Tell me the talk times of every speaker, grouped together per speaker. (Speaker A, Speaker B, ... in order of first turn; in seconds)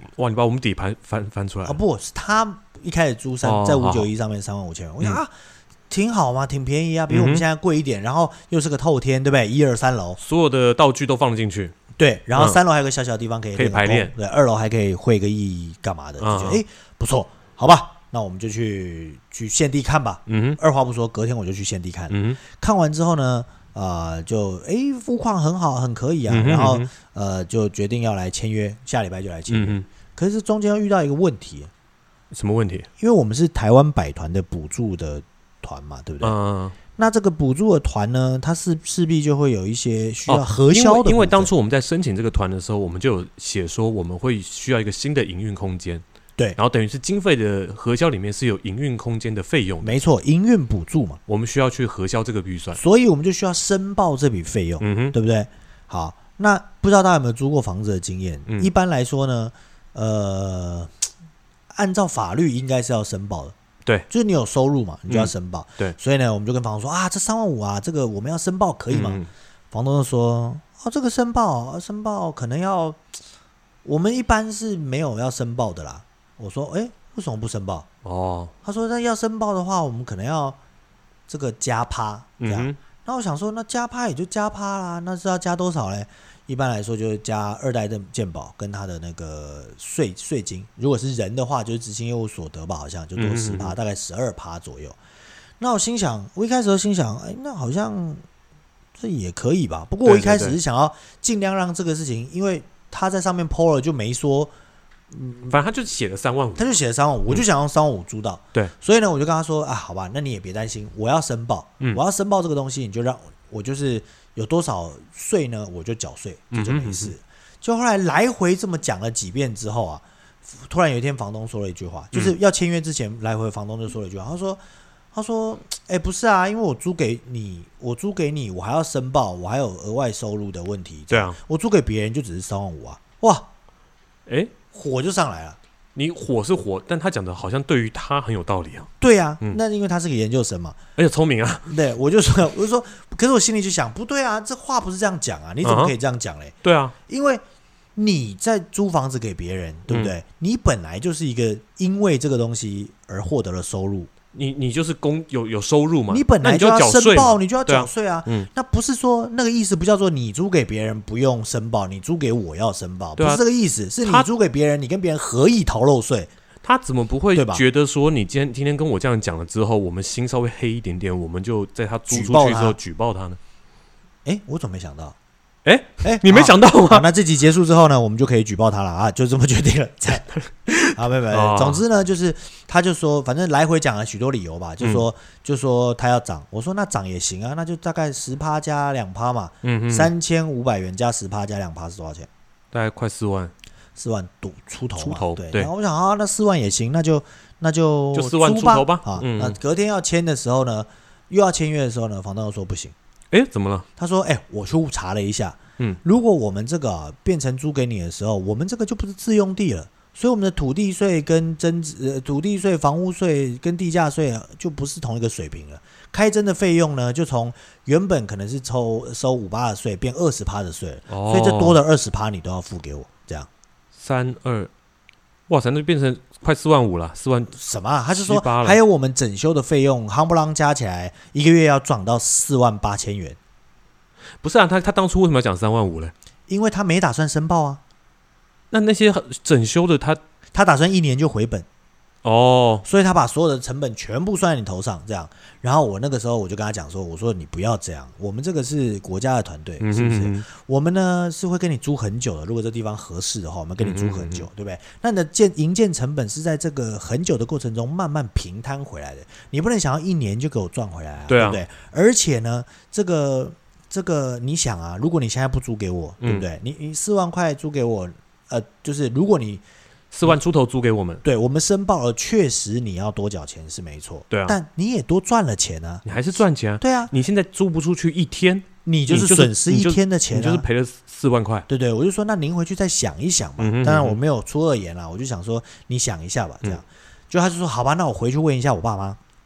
Speaker A: 0.1-1.8, 3.4-4.1, 7.1-7.4, 10.2-11.7, 12.3-12.6, 13.5-14.1, 16.2-16.6, 20.3-20.6, 22.1-22.4, 26.3-26.9, 29.5-29.9, 32.3-32.9, 36.2-36.8, 40.3-46.0, 46.6-50.0, 51.3-52.8, 54.8-55.1, 65.1-66.0, 68.9-69.3, 78.0-78.5, 82.4-82.8, 93.2-93.8, 100.0-100.6, 105.5-107.4, 116.5-117.1, 122.1-122.4, 131.1-131.4, 134.3-134.6, 135.9-138.9, 141.0-141.8, 145.6-146.0, 146.6-146.9, 149.9-150.2, 154.3-158.5, 163.2-163.4, 164.0-164.3, 166.6-173.4, 175.6-177.1, 180.5-181.8, 184.8-185.1, 189.6-190.1, 192.7-193.5, 195.0-195.7, 198.1-199.6, 203.3-203.9, 221.1-221.8, 223.9-224.7, 225.5-227.6, 228.1-228.8, 234.4-236.1, 238.7-240.2, 242.2-242.8, 249.8-250.5, 253.8-254.5, 261.3-261.6, 266.2-266.5, 270.1-271.2, 274.3-274.6, 276.0-281.6, 283.6-284.2
Speaker B: 1.6-5.3, 5.9-10.2, 11.9-31.7, 33.0-36.4, 36.9-41.5, 49.8-51.2, 52.7-60.9, 61.7-63.5, 64.1-73.0, 73.8-77.9, 78.6-80.6, 81.3-95.0, 95.6-98.2, 98.9-104.5, 105.1-105.5, 106.5-124.6, 125.1-133.5, 134.6-135.6, 139.0-140.8, 141.7-147.4, 147.9-154.1, 156.1-166.3, 167.3-167.6, 172.1-172.8, 174.2-175.2, 176.0-180.3, 180.9-192.3, 193.9-202.9, 204.0-223.5, 227.5-233.4, 236.5-237.8, 240.5-241.7, 242.8-269.6, 271.2-276.0, 276.8-277.1, 278.8-280.6, 281.7-289.2